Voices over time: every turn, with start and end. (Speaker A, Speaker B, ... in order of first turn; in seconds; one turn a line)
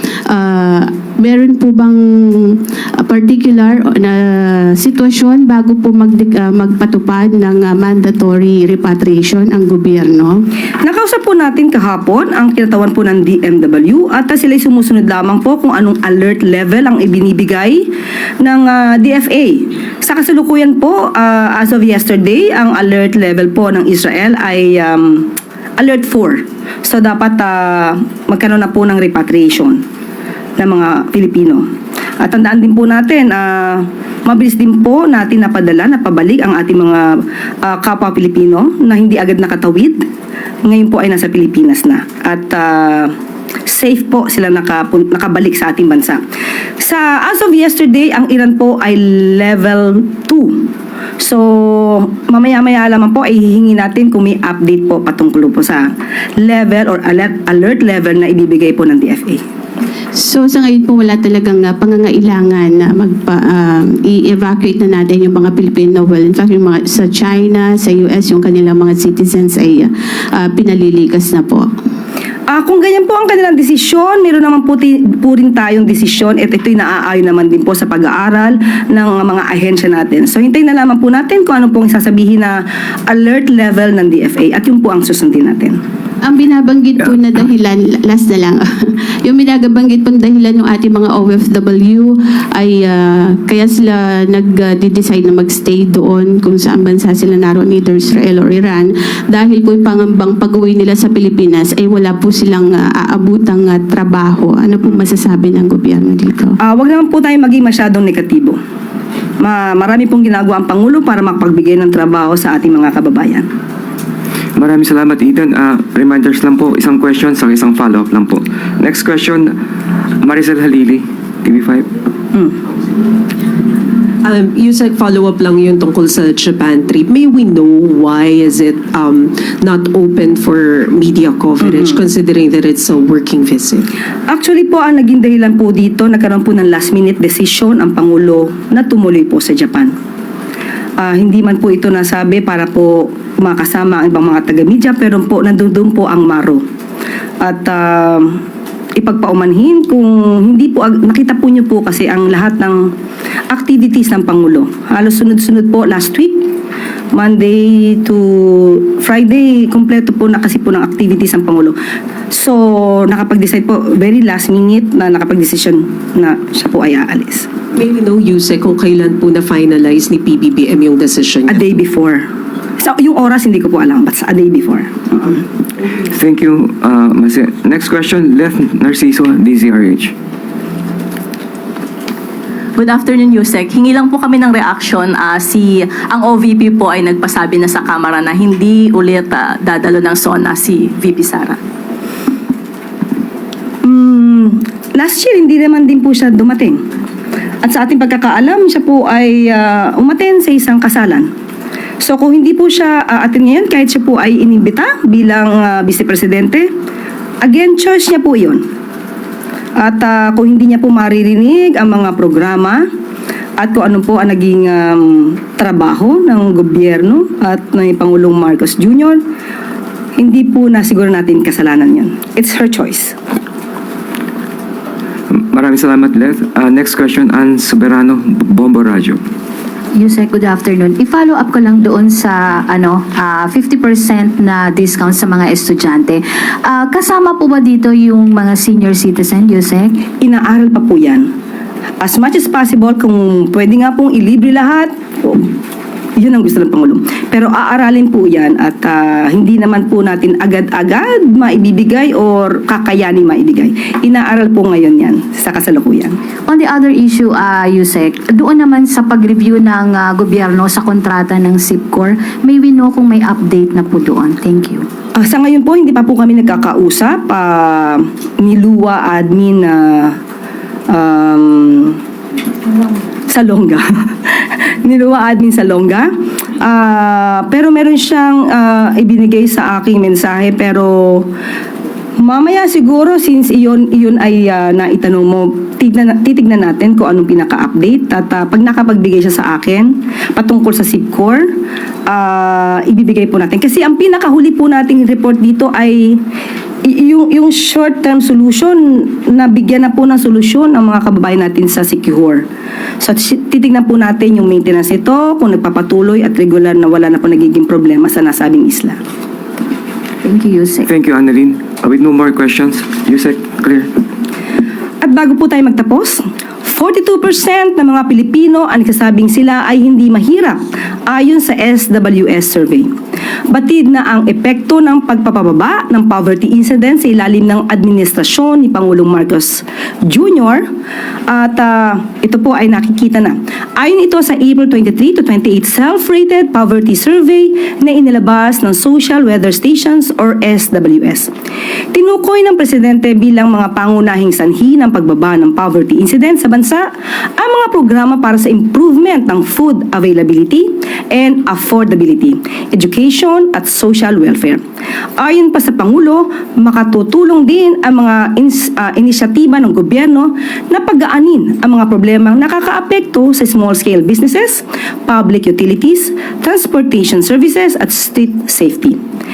Speaker A: 0.3-10.4
Speaker B: 10.8-17.9
Speaker B: 18.4-25.3
Speaker B: 25.8-29.8
Speaker B: 30.6-31.6
Speaker B: 32.2-37.0
Speaker B: 37.6-40.0
Speaker B: 40.6-43.1
Speaker B: 43.7-46.2
Speaker B: 46.8-50.7
Speaker B: 51.2-59.4
Speaker A: 60.1-71.7
Speaker B: 72.5-85.8
Speaker A: 86.2-88.6
Speaker A: 89.2-106.6
Speaker B: 106.6-108.6
Speaker B: 109.4-113.4
Speaker C: 114.6-119.5
Speaker C: 120.2-121.9
Speaker D: 124.4-129.2
Speaker D: 130.2-133.8
Speaker B: 134.3-139.9
Speaker B: 141.0-146.6
Speaker B: 147.4-148.4
Speaker B: 149.0-152.8
Speaker B: 153.5-156.5
Speaker B: 157.1-161.7
Speaker B: 162.3-167.5
Speaker D: 167.9-171.5
Speaker B: 171.5-172.2
Speaker B: 172.8-175.4
Speaker C: 176.1-180.1
Speaker E: 182.8-191.6
Speaker B: 193.8-196.8
Speaker B: 197.6-201.3
Speaker B: 202.0-206.7
Speaker B: 207.4-208.6
Speaker B: 209.8-212.8
Speaker B: 213.6-219.2
Speaker B: 220.2-223.2
Speaker C: 225.3-229.2
Speaker F: 229.9-240.0
Speaker B: 240.2-241.2
Speaker B: 242.0-245.5
Speaker B: 246.2-256.1
Speaker F: 256.5-264.9
Speaker B: 265.1-270.1
Speaker B: 270.9-272.0
Speaker B: 273.3-273.8
Speaker B: 274.8-276.1
Speaker B: 276.6-281.3
Speaker B: 282.2-291.4
Speaker B: 292.1-296.2
Speaker B: 296.9-302.4
Speaker B: 303.0-309.0
Speaker F: 310.2-310.9
Speaker C: 310.9-313.9
Speaker B: 315.0-322.9
Speaker B: 323.5-330.6
Speaker B: 331.3-341.3
Speaker B: 341.9-346.8
Speaker B: 347.4-354.6
Speaker B: 355.2-369.0